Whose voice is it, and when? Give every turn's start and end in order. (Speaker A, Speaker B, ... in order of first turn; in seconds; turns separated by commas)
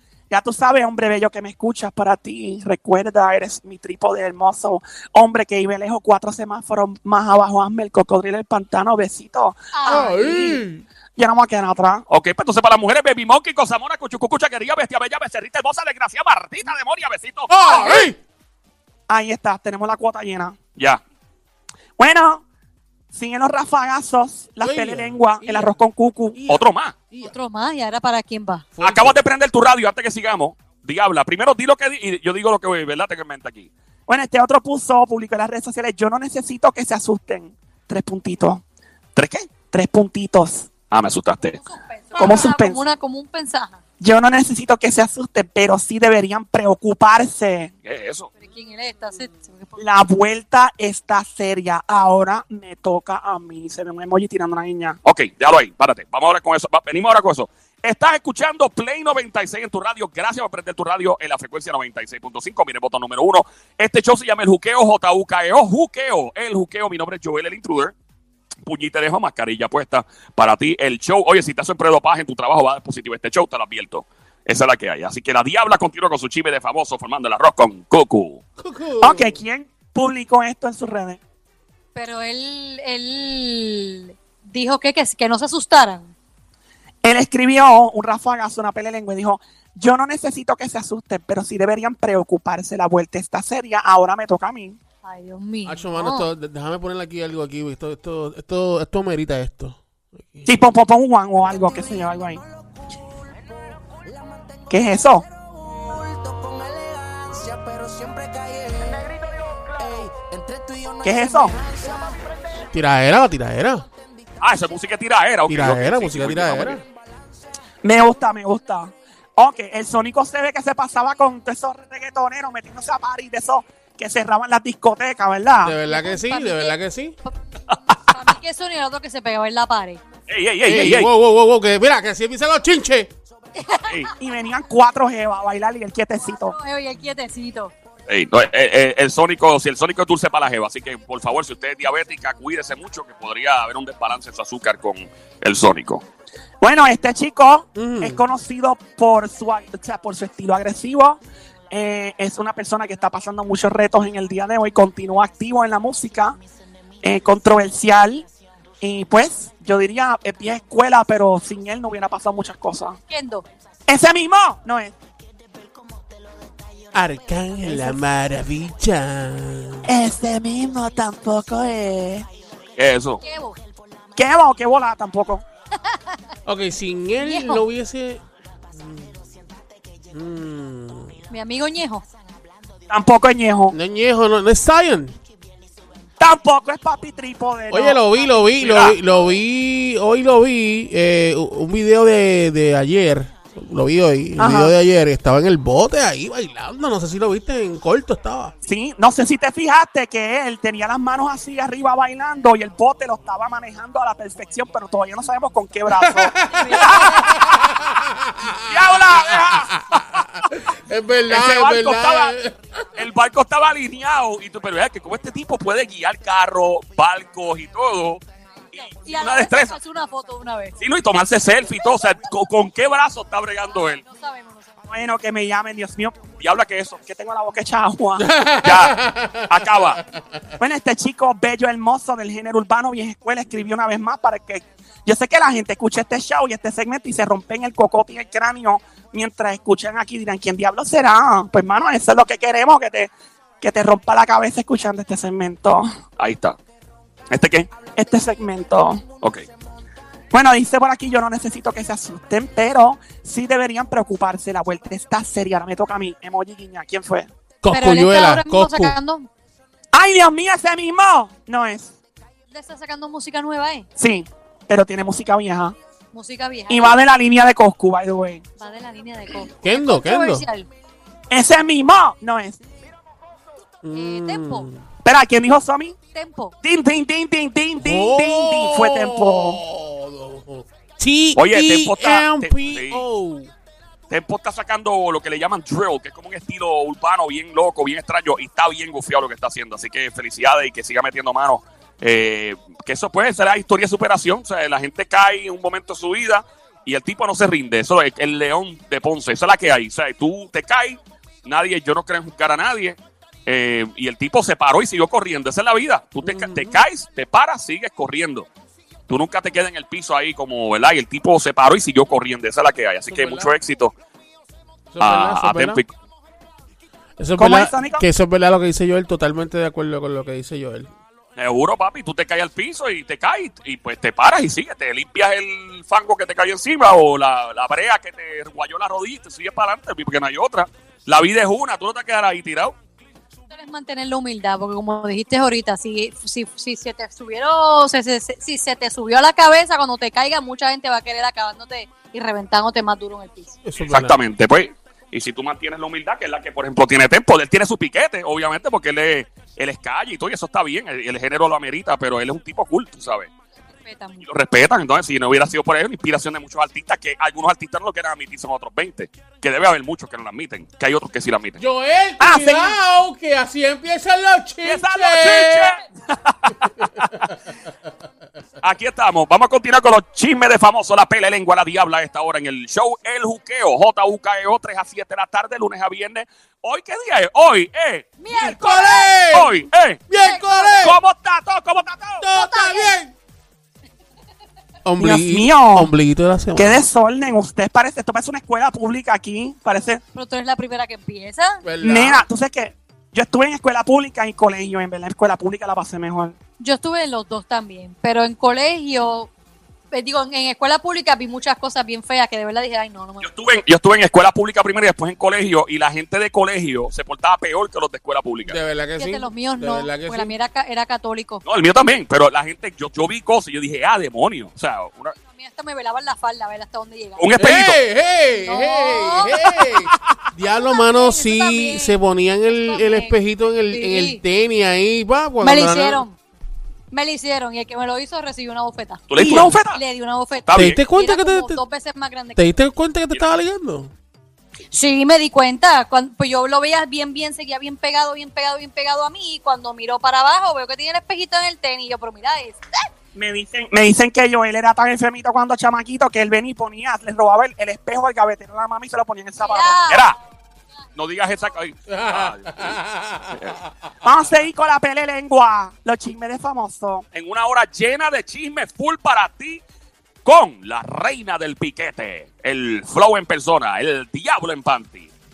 Speaker A: 0.3-10.6, Speaker B: 9.7-10.5, Speaker C: 9.9-10.8, Speaker A: 11.2-12.1, Speaker D: 12.1-18.1, Speaker C: 17.5-18.2, Speaker A: 19.1-20.6, Speaker A: 22.0-22.4, Speaker A: 23.1-26.4, Speaker C: 24.6-25.8, Speaker C: 26.3-27.3, Speaker D: 26.5-26.9, Speaker B: 27.2-28.6, Speaker C: 28.8-29.2, Speaker D: 28.8-33.7, Speaker A: 34.1-38.6, Speaker D: 39.1-39.5, Speaker A: 39.7-40.7, Speaker D: 40.9-41.6, Speaker B: 41.5-43.8, Speaker A: 42.1-42.8, Speaker A: 44.0-47.7, Speaker D: 47.8-48.3, Speaker B: 48.4-49.8, Speaker A: 49.8-55.0, Speaker D: 55.0-67.9, Speaker D: 68.6-78.4, Speaker C: 78.6-79.4, Speaker A: 79.0-81.2, Speaker B: 81.9-86.1, Speaker A: 87.0-94.8, Speaker B: 95.0-96.3, Speaker C: 95.7-100.5, Speaker A: 100.5-102.4, Speaker A: 104.7-105.3, Speaker E: 106.2-109.0, Speaker E: 109.9-111.3, Speaker A: 111.0-111.6, Speaker C: 112.7-113.8, Speaker D: 114.4-116.8, Speaker C: 115.5-116.8, Speaker A: 117.8-125.8, Speaker C: 125.6-127.2, Speaker B: 125.8-127.3, Speaker B: 127.9-130.0, Speaker D: 130.3-131.1, Speaker C: 130.6-133.1, Speaker B: 133.6-134.1, Speaker A: 134.2-136.6, Speaker B: 136.2-137.7, Speaker D: 138.1-146.0, Speaker A: 146.6-151.2, Speaker C: 147.8-148.2, Speaker A: 151.7-156.4, Speaker A: 157.0-158.2, Speaker A: 158.8-163.0, Speaker B: 163.1-163.4, Speaker A: 163.9-164.9, Speaker C: 166.9-169.9, Speaker A: 167.6-168.0, Speaker A: 169.8-172.3, Speaker D: 172.8-173.2, Speaker B: 173.2-173.6, Speaker A: 174.2-175.4, Speaker B: 175.8-176.2, Speaker C: 176.4-178.2, Speaker B: 177.2-177.6, Speaker C: 178.7-179.2, Speaker C: 180.1-181.1, Speaker B: 181.3-182.1, Speaker A: 182.9-183.8, Speaker C: 183.7-185.2, Speaker A: 186.2-188.0, Speaker C: 187.7-198.5, Speaker D: 188.6-189.0, Speaker A: 194.4-194.7, Speaker A: 198.6-206.3, Speaker C: 205.9-212.6, Speaker B: 206.5-206.9, Speaker D: 208.7-210.2, Speaker D: 211.3-212.3, Speaker D: 212.9-218.2, Speaker D: 218.7-219.8, Speaker B: 218.7-220.8, Speaker D: 220.8-224.0, Speaker B: 223.6-224.7, Speaker A: 224.9-226.3, Speaker D: 226.4-227.0, Speaker A: 227.0-228.3, Speaker C: 228.2-230.2, Speaker D: 228.6-229.0, Speaker D: 229.5-230.0, Speaker A: 230.6-245.9, Speaker D: 246.2-246.6, Speaker D: 247.3-247.7, Speaker A: 247.9-249.0, Speaker A: 250.3-257.3, Speaker C: 257.6-258.9, Speaker B: 257.7-259.3, Speaker A: 259.9-261.9, Speaker B: 262.5-263.9, Speaker A: 264.0-265.8, Speaker B: 266.1-267.0, Speaker A: 266.7-268.4, Speaker B: 268.6-270.7, Speaker C: 269.6-270.4, Speaker A: 271.3-272.6, Speaker C: 273.8-274.8, Speaker B: 273.9-274.7, Speaker A: 275.0-275.9, Speaker B: 276.1-276.5, Speaker A: 276.6-279.6, Speaker C: 277.8-283.5, Speaker D: 281.4-283.0, Speaker D: 284.1-308.5, Speaker C: 306.2-306.8, Speaker D: 309.1-313.9, Speaker C: 313.1-313.5, Speaker C: 314.9-315.8, Speaker D: 315.0-315.9, Speaker C: 317.2-320.9, Speaker A: 317.4-318.1, Speaker D: 321.4-332.7, Speaker B: 333.5-343.6, Speaker C: 343.6-344.2, Speaker D: 343.8-353.3, Speaker B: 353.8-354.3, Speaker D: 354.2-361.6, Speaker C: 361.6-365.7, Speaker A: 362.2-362.8, Speaker D: 364.6-367.1, Speaker C: 366.6-367.3, Speaker D: 368.6-378.1, Speaker B: 378.2-379.1, Speaker C: 378.3-379.5, Speaker D: 379.3-380.0, Speaker C: 380.1-381.0, Speaker B: 380.1-380.8, Speaker D: 380.8-382.2, Speaker C: 382.2-383.1, Speaker B: 382.3-382.9, Speaker C: 384.8-386.8, Speaker A: 385.0-385.9, Speaker A: 386.6-390.0, Speaker B: 390.1-391.6, Speaker C: 391.6-392.2, Speaker A: 391.8-396.4, Speaker B: 396.6-399.3, Speaker B: 399.9-403.3, Speaker D: 403.2-408.6, Speaker C: 408.5-410.3, Speaker B: 409.0-411.4, Speaker D: 411.4-415.1, Speaker B: 415.2-417.3, Speaker D: 417.2-417.8, Speaker C: 417.4-426.0, Speaker B: 418.4-419.4, Speaker B: 420.5-423.2, Speaker B: 423.7-424.2, Speaker B: 425.4-426.2, Speaker B: 426.9-429.1, Speaker D: 429.1-429.8, Speaker A: 429.2-429.6, Speaker B: 429.7-432.4, Speaker D: 430.4-430.8, Speaker C: 430.5-431.6, Speaker C: 432.4-433.9, Speaker B: 434.7-442.6, Speaker A: 443.1-449.8, Speaker B: 449.4-450.1, Speaker D: 449.9-450.2, Speaker D: 450.9-452.8, Speaker C: 451.9-453.6, Speaker D: 453.3-453.6, Speaker A: 454.0-457.0, Speaker D: 457.1-459.6, Speaker D: 460.2-465.1